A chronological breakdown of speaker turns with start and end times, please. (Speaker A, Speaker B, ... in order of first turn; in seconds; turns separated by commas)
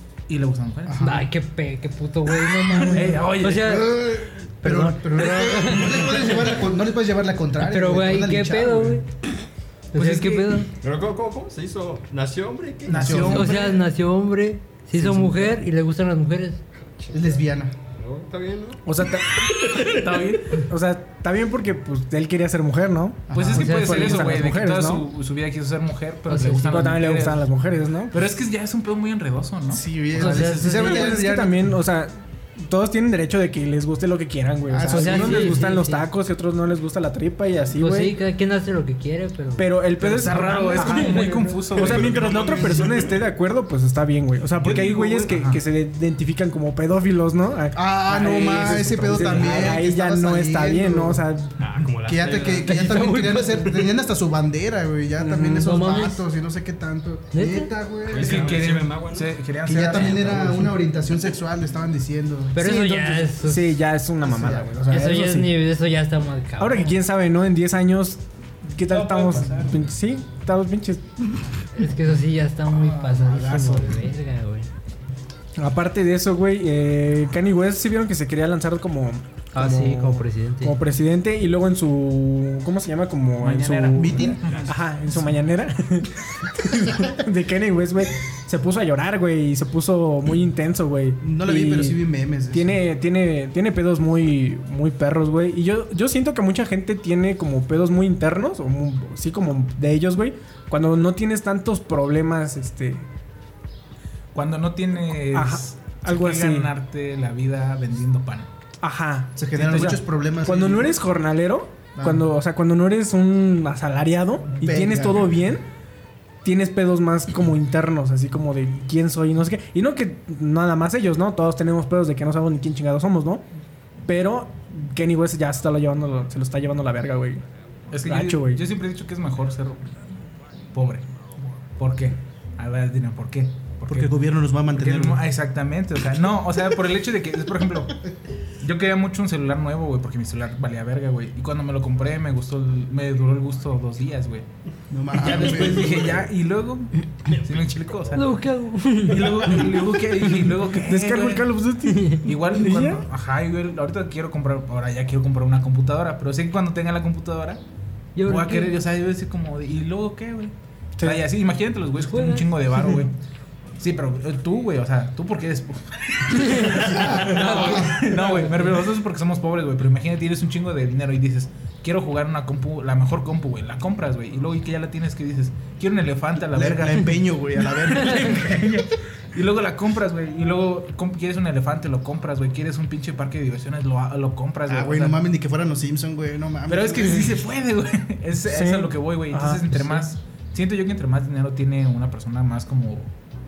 Speaker A: 0.3-1.2, Speaker B: 0.8-1.2, Speaker C: 1.0-4.1, Speaker A: 2.9-3.8, Speaker B: 3.6-9.0, Speaker C: 4.6-6.8, Speaker C: 7.6-9.0, Speaker C: 9.9-10.7, Speaker A: 9.9-10.7, Speaker D: 10.8-13.3, Speaker A: 12.8-13.8, Speaker B: 12.9-13.6, Speaker C: 13.3-16.6, Speaker D: 16.8-18.8, Speaker B: 17.1-17.7, Speaker E: 18.8-19.5, Speaker A: 19.6-20.6, Speaker E: 20.6-25.1, Speaker B: 23.3-23.8, Speaker A: 23.3-27.5, Speaker C: 23.6-24.2, Speaker C: 26.3-26.8, Speaker E: 26.5-28.1, Speaker A: 28.1-30.5, Speaker B: 29.7-31.6, Speaker C: 30.1-31.1, Speaker E: 30.2-38.2, Speaker B: 34.7-35.6, Speaker C: 34.8-36.0, Speaker C: 37.8-39.7, Speaker E: 39.5-51.5, Speaker A: 40.0-42.9, Speaker C: 40.2-41.4, Speaker D: 41.7-43.1, Speaker A: 44.6-45.6, Speaker B: 47.7-51.2, Speaker D: 51.6-53.9, Speaker B: 52.0-58.6, Speaker E: 55.2-55.7, Speaker C: 55.3-56.2, Speaker C: 57.3-57.7, Speaker D: 58.0-59.4, Speaker A: 58.1-60.7, Speaker B: 59.6-62.6, Speaker D: 60.0-60.5, Speaker C: 62.5-63.8, Speaker E: 62.6-65.5, Speaker B: 64.2-64.8, Speaker C: 64.9-67.0, Speaker E: 66.6-71.0, Speaker A: 68.9-69.8, Speaker C: 71.7-74.7, Speaker B: 72.7-74.0, Speaker E: 75.6-103.1, Speaker C: 79.5-80.8, Speaker A: 83.4-84.8, Speaker B: 83.9-84.6, Speaker D: 84.5-84.7, Speaker B: 91.2-92.8, Speaker A: 104.3-108.5, Speaker E: 105.3-106.7, Speaker E: 108.8-115.7, Speaker B: 109.3-110.9, Speaker A: 109.5-110.0, Speaker B: 112.0-112.2, Speaker B: 114.6-115.3, Speaker E: 116.4-123.4, Speaker E: 124.0-127.4, Speaker A: 127.9-129.9, Speaker E: 128.0-128.6, Speaker A: 130.7-131.1, Speaker A: 131.8-138.0, Speaker B: 133.9-135.2, Speaker A: 138.6-144.5, Speaker B: 144.9-146.2, Speaker A: 145.1-148.3, Speaker D: 147.3-148.4, Speaker C: 148.1-149.8, Speaker A: 149.0-151.5, Speaker E: 150.7-153.0, Speaker A: 152.2-157.6, Speaker C: 158.1-158.8, Speaker A: 158.2-163.1, Speaker E: 161.0-161.2, Speaker C: 162.1-162.5, Speaker A: 163.8-185.2, Speaker C: 166.3-168.6, Speaker B: 166.8-168.3, Speaker B: 176.4-178.6, Speaker B: 184.7-187.4, Speaker A: 186.7-193.1, Speaker E: 188.4-190.1